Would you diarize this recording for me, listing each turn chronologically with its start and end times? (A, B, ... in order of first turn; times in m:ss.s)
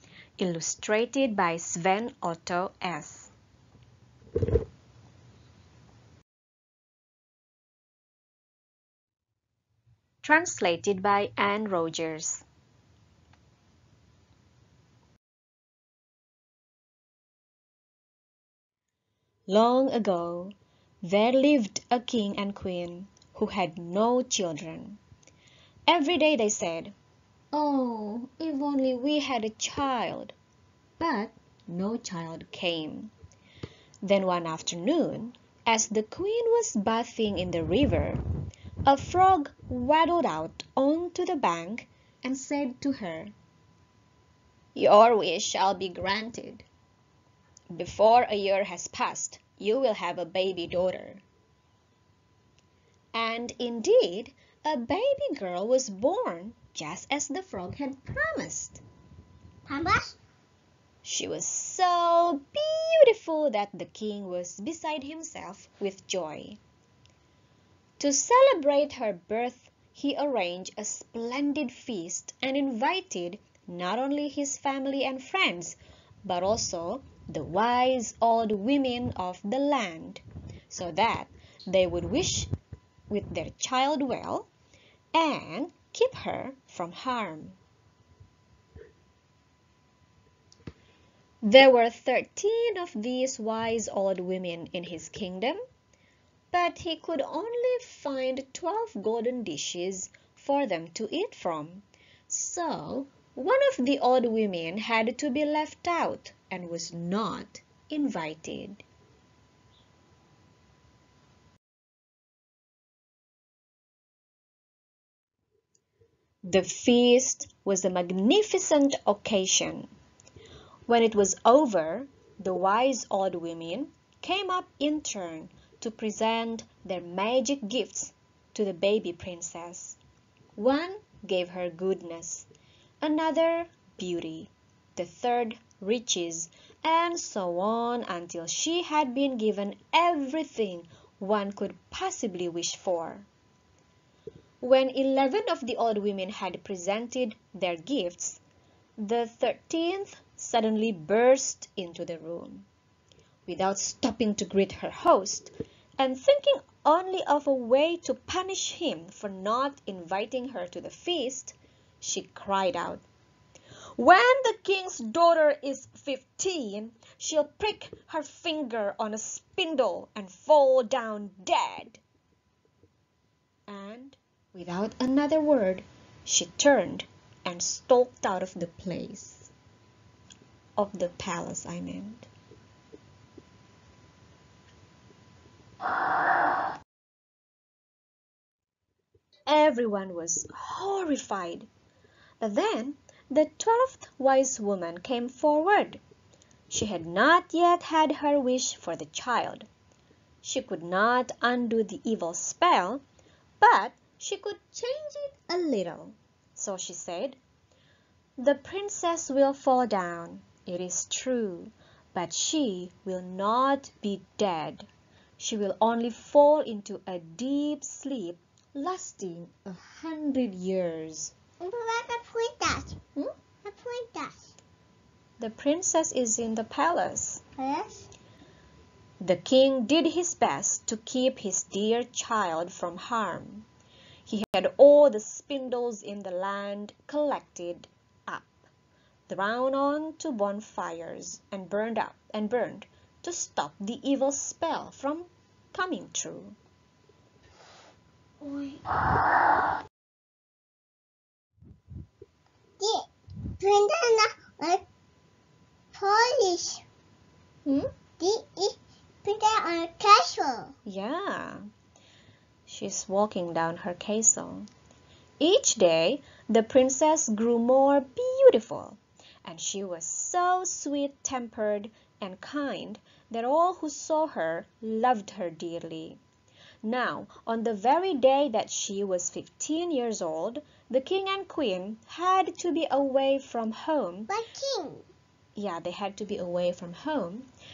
0:00.4-0:03.3 A
0:10.2-0:12.4 A
0:19.5-0:25.0 A
0:25.9-0:27.0 A
0:27.5-0:30.4 A
0:31.0-0:33.1 A
0:34.0-0:38.2 A
0:38.9-0:43.3 A
0:44.8-0:46.7 A
0:47.7-0:51.2 A
0:53.1-0:58.8 A
0:59.7-1:00.2 B
1:01.0-1:06.6 A
1:08.0-1:22.5 A
1:23.1-1:24.5 A
1:25.1-1:27.6 A
1:31.4-1:35.6 A
1:36.5-1:48.8 A
1:56.4-1:59.9 A
2:00.9-2:10.0 A
2:10.6-2:12.5 A
2:13.0-2:23.3 A
2:24.6-2:28.4 A
2:29.0-2:32.7 A
2:33.5-2:43.0 A
2:44.0-2:52.0 A
2:53.7-2:59.5 A
3:00.8-3:02.3 A
3:09.5-3:11.7 A
3:12.4-3:16.0 A
3:16.7-3:19.7 A
3:20.4-3:23.0 A
3:23.6-3:27.4 A
3:28.4-3:34.9 A
3:35.4-3:41.3 A
3:41.6-3:43.0 B
3:43.6-3:44.6 B
3:45.4-3:47.4 A
3:47.6-3:48.1 B
3:49.2-3:53.7 A
3:54.3-3:58.6 A
3:59.3-4:06.6 A
4:08.4-4:08.8 B
4:12.8-4:14.8 B
4:16.0-4:16.8 B
4:17.6-4:17.9 A
4:18.2-4:20.7 B
4:20.8-4:21.6 A
4:22.7-4:24.7 A
4:25.4-4:36.2 A
4:36.8-4:44.3 A
4:44.3-4:45.1 B
4:45.6-4:47.5 A